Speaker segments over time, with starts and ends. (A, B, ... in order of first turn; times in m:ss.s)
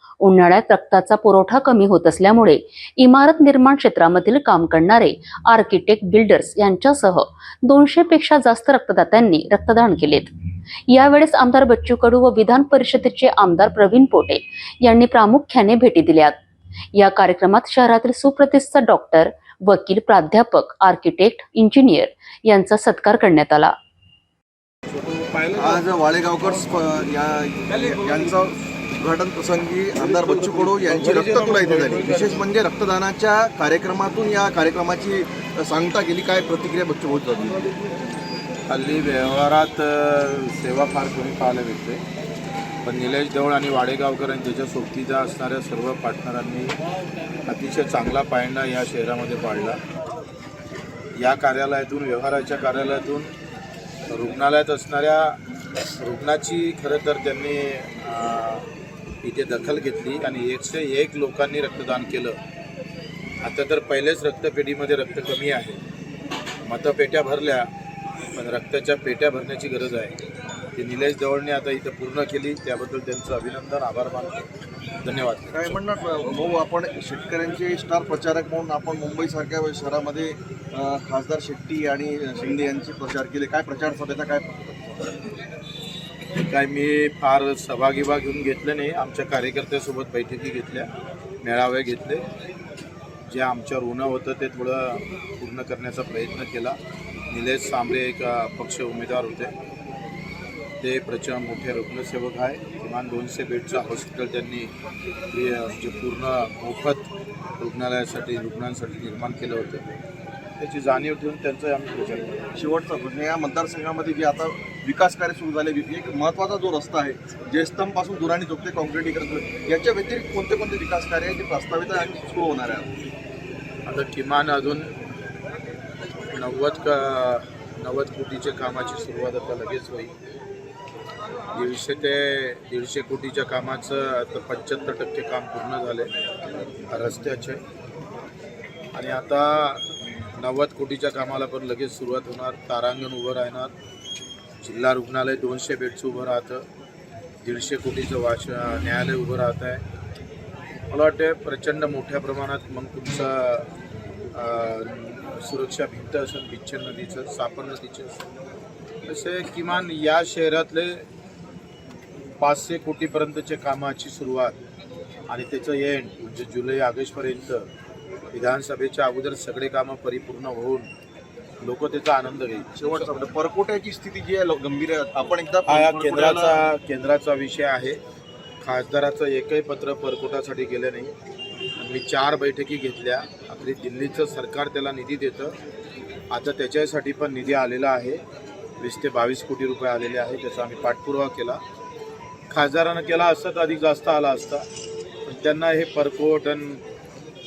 0:00.2-0:10.3 A
0:10.9-0:16.4 A
0:17.0-0:23.7 A
0:25.0-0:25.9 B
0:25.6-0:37.7 C
0:27.8-0:28.3 B
0:30.0-0:32.4 B
0:38.7-0:42.0 B
0:42.8-0:46.8 B
0:47.5-0:49.8 B
0:51.2-0:53.3 B
0:54.1-0:55.4 B
0:56.0-0:58.7 B
0:59.2-1:02.4 B
1:03.4-1:05.8 B
1:06.6-1:07.7 B
1:08.4-1:10.1 B
1:10.8-1:14.5 B
1:15.0-1:15.8 B
1:15.5-1:25.0 C
1:26.4-1:30.9 B
1:31.4-1:32.2 B
1:33.3-1:36.8 B
1:37.3-1:39.5 B
1:40.8-1:44.7 B
1:45.3-1:47.1 B
1:47.6-1:50.0 B
1:50.6-1:52.3 B
1:52.6-2:02.9 C
2:03.9-2:04.9 B
2:06.3-2:10.1 B
2:11.5-2:16.1 B
2:16.9-2:17.6 B
2:19.0-2:19.8 B
2:20.4-2:23.7 B
2:24.6-2:26.6 B
2:27.4-2:29.8 B
2:30.9-2:33.7 B
2:34.3-2:38.2 B
2:39.0-2:41.1 B
2:42.4-2:44.6 B
2:45.3-2:47.7 B
2:48.3-2:50.9 B
2:51.6-2:53.1 B
2:52.8-2:56.6 C
2:55.7-2:58.0 B
2:58.6-3:01.1 B
3:01.8-3:05.6 B
3:06.3-3:08.2 B
3:08.8-3:11.6 B
3:12.5-3:14.6 B
3:15.2-3:16.8 B